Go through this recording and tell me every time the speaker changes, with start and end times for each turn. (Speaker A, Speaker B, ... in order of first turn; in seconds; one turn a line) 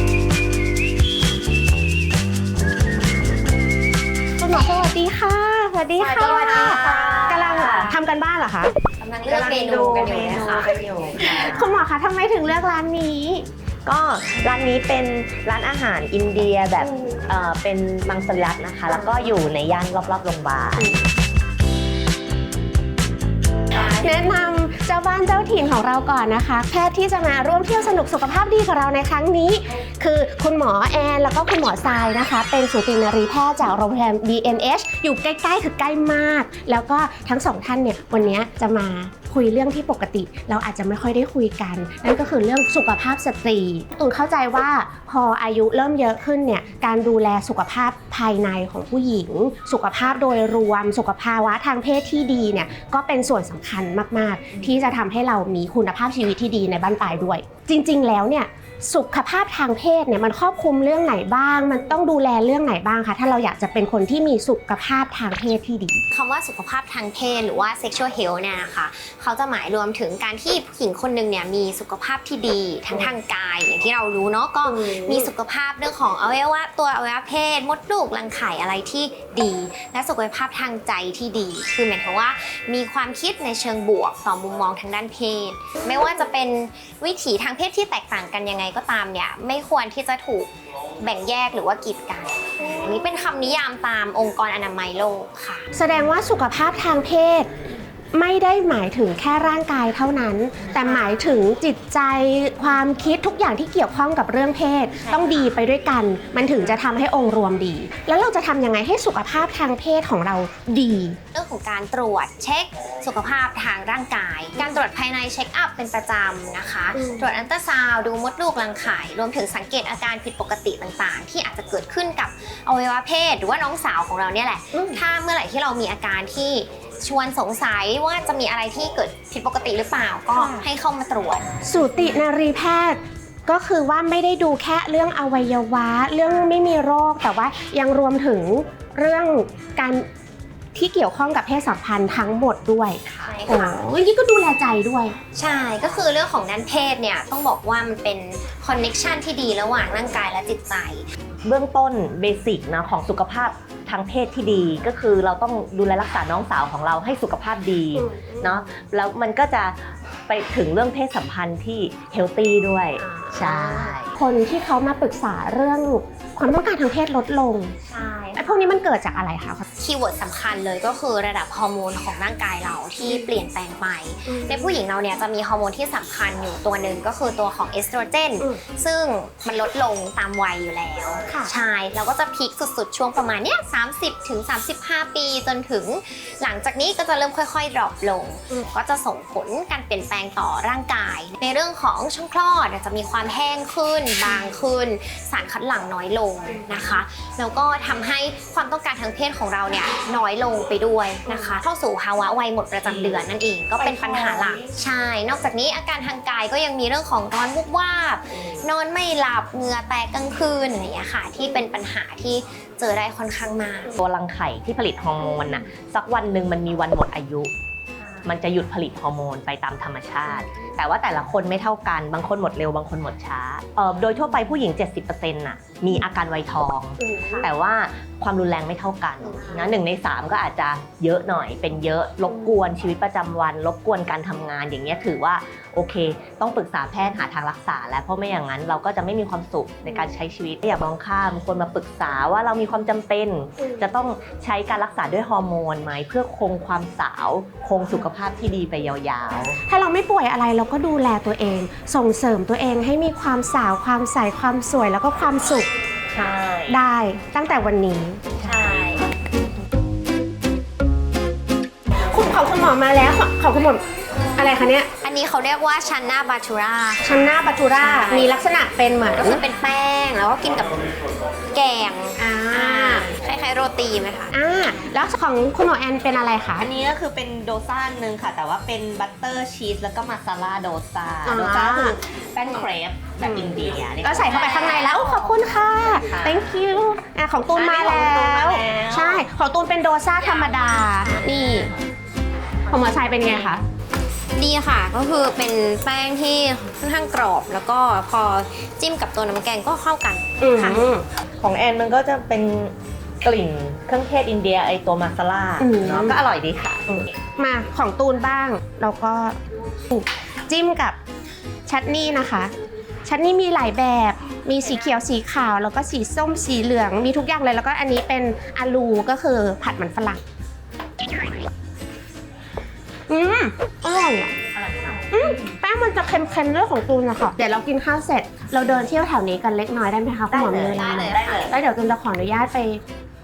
Speaker A: 4.4-8.7
Speaker B: 6.0-8.0
Speaker C: 6.0-7.9
Speaker C: 9.0-10.8
Speaker B: 9.2-11.8
Speaker A: 11.2-13.5
Speaker B: 13.9-21.0
Speaker A: 23.9-66.0
Speaker C: 66.1-95.7
Speaker A: 95.7-97.5
Speaker A: 98.1-111.2
Speaker C: 100.8-101.3
Speaker C: 105.1-105.5
Speaker C: 111.3-131.4
Speaker A: 117.0-117.3
Speaker A: 124.7-125.0
Speaker A: 130.3-130.7
Speaker A: 131.7-140.1
Speaker C: 136.2-136.6
Speaker A: 140.8-145.2
Speaker B: 143.1-143.3
Speaker C: 143.2-143.8
Speaker C: 145.3-151.0
Speaker B: 151.4-164.2
Speaker A: 158.0-158.6
Speaker A: 163.0-163.6
Speaker A: 164.1-167.8
Speaker C: 167.9-168.8
Speaker A: 168.4-169.6
Speaker C: 169.8-214.0
Speaker A: 181.3-181.5
Speaker B: 202.8-203.2
Speaker B: 203.8-204.7
Speaker B: 214.0-217.5
Speaker B: 218.2-249.6
Speaker A: 249.7-255.7
Speaker B: 256.1-256.8
Speaker A: 256.7-258.3
Speaker C: 258.4-259.1
Speaker B: 258.4-258.8
Speaker A: 262.1-263.8
Speaker A: 264.4-264.9
Speaker C: 265.0-268.4
Speaker A: 267.0-269.4
Speaker C: 269.2-270.8
Speaker C: 271.5-274.3
Speaker A: 272.2-273.1
Speaker A: 274.3-276.7
Speaker B: 276.6-286.5
Speaker A: 281.2-282.0
Speaker A: 283.2-291.7
Speaker B: 287.5-289.3
Speaker C: 290.2-291.6
Speaker A: 292.7-293.6
Speaker C: 292.7-293.6
Speaker C: 294.4-300.9
Speaker A: 300.4-301.1
Speaker B: 301.4-306.9
Speaker A: 305.6-306.2
Speaker A: 306.9-309.4
Speaker A: 309.9-311.0
Speaker A: 311.7-312.5
Speaker A: 313.1-320.2
Speaker C: 314.6-315.0
Speaker A: 323.1-324.4
Speaker B: 324.5-325.6
Speaker A: 325.1-332.8
Speaker B: 330.3-331.6
Speaker C: 330.7-331.5